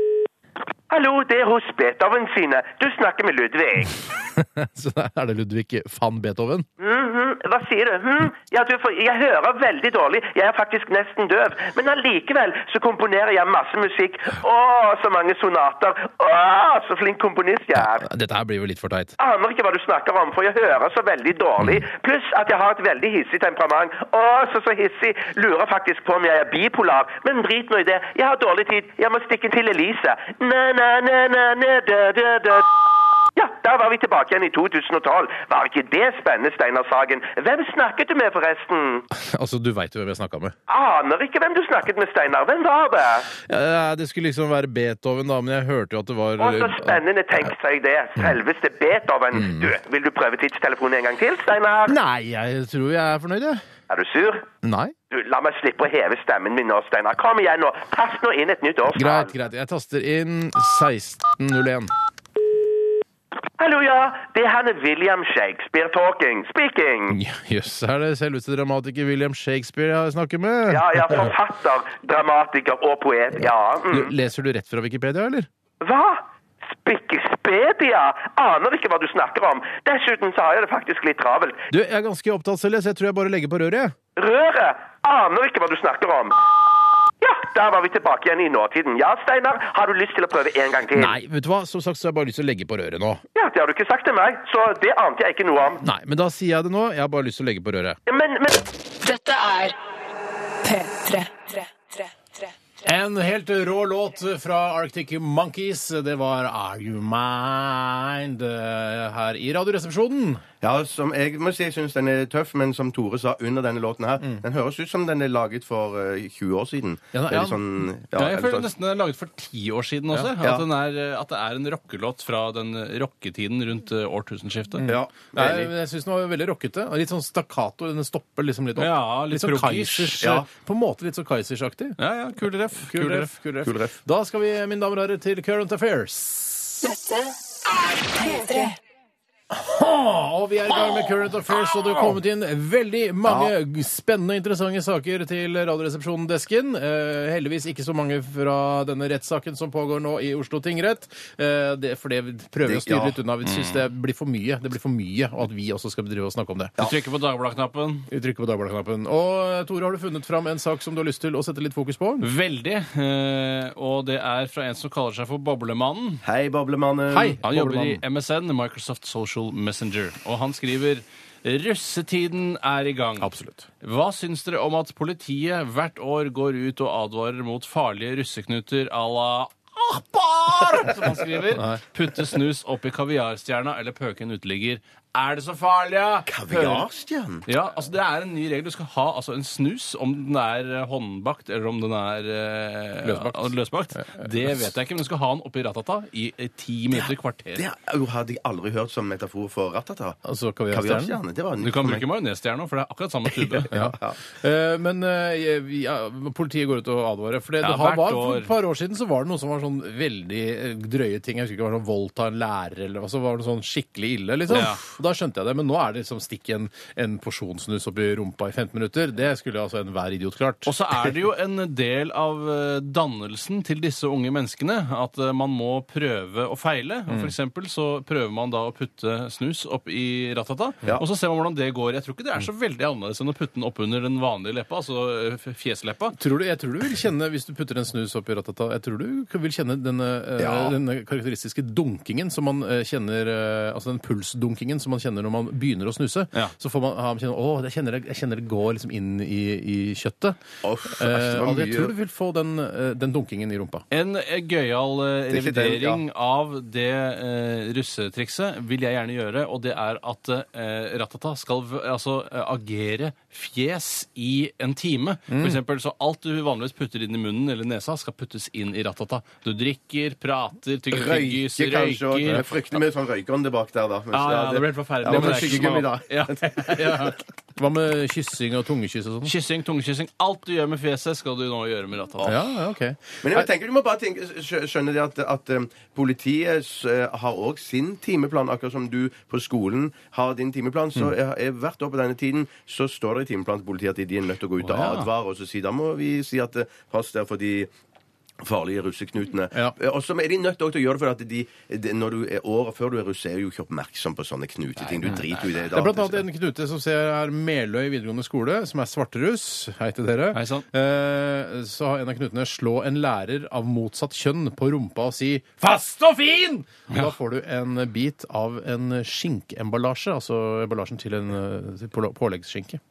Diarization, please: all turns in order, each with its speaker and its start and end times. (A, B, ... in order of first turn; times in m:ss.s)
0:00.9-0:04.0 A
0:04.3-0:06.6 B
0:06.8-0:18.1 A
0:17.8-0:19.1 B
0:19.2-0:32.7 A
0:33.4-0:39.0 A
0:39.1-0:40.5 B
0:40.7-0:43.3 A
0:43.4-0:47.0 B
0:46.4-0:52.0 A
0:49.3-0:49.7 B
0:51.8-0:53.6 B
0:53.9-0:54.4 A
0:54.6-0:54.9 B
0:55.1-0:59.3 A
0:58.9-1:01.9 B
1:03.6-1:07.2 A
1:07.1-1:11.3 B
1:10.7-1:14.1 A
1:13.9-1:15.5 B
1:15.8-1:16.2 A
1:16.7-1:21.6 A
1:21.7-1:23.9 B
1:24.2-1:26.4 A
1:27.2-1:31.1 A
1:30.9-1:33.2 B
1:33.3-1:35.8 A
1:35.8-1:38.0 B
1:38.1-1:38.6 A
1:39.0-1:39.8 C
1:40.6-1:42.5 C
1:42.8-1:50.4 B
1:50.6-1:58.7 D
1:57.1-1:57.6 B
1:58.1-2:04.8 E
2:00.4-2:00.6 D
2:04.8-2:12.0 B
2:04.8-2:05.7 D
2:08.8-2:10.2 E
2:10.2-2:10.5 D
2:12.0-2:13.3 E
2:12.8-2:16.9 B
2:13.6-2:14.0 D
2:16.8-2:18.8 C
2:19.5-2:36.7 B
2:23.2-2:23.5 D
2:32.6-2:33.2 D
2:36.8-2:38.1 E
2:38.1-2:42.3 B
2:42.2-2:46.2 E
2:46.2-2:47.4 D
2:47.1-2:48.0 B
2:47.4-3:06.9 E
2:53.2-2:53.7 B
3:01.5-3:01.8 B
3:06.3-3:07.4 D
3:07.4-3:17.6 E
3:13.0-3:14.3 B
3:17.5-3:20.2 D
3:20.2-3:21.2 B
3:20.7-3:22.0 D
3:21.6-3:23.7 E
3:23.4-3:24.2 D
3:23.7-3:40.7 B
3:27.6-3:28.5 E
3:34.5-3:34.8 E
3:40.6-3:56.2 E
3:56.1-4:13.8 B
4:00.4-4:00.8 D
4:10.6-4:11.9 D
4:13.9-4:32.8 E
4:15.3-4:16.0 D
4:25.3-4:25.6 B
4:30.9-4:36.7 D
4:34.1-4:37.2 E
4:35.1-4:35.7 B
4:37.6-4:39.3 B
4:39.2-4:42.4 E
4:42.2-4:43.5 B
4:43.2-4:57.7 D
4:54.6-4:55.1 E
4:58.4-5:06.2 D
5:04.8-5:05.8 E
5:05.7-5:22.8 B
5:10.3-5:10.6 E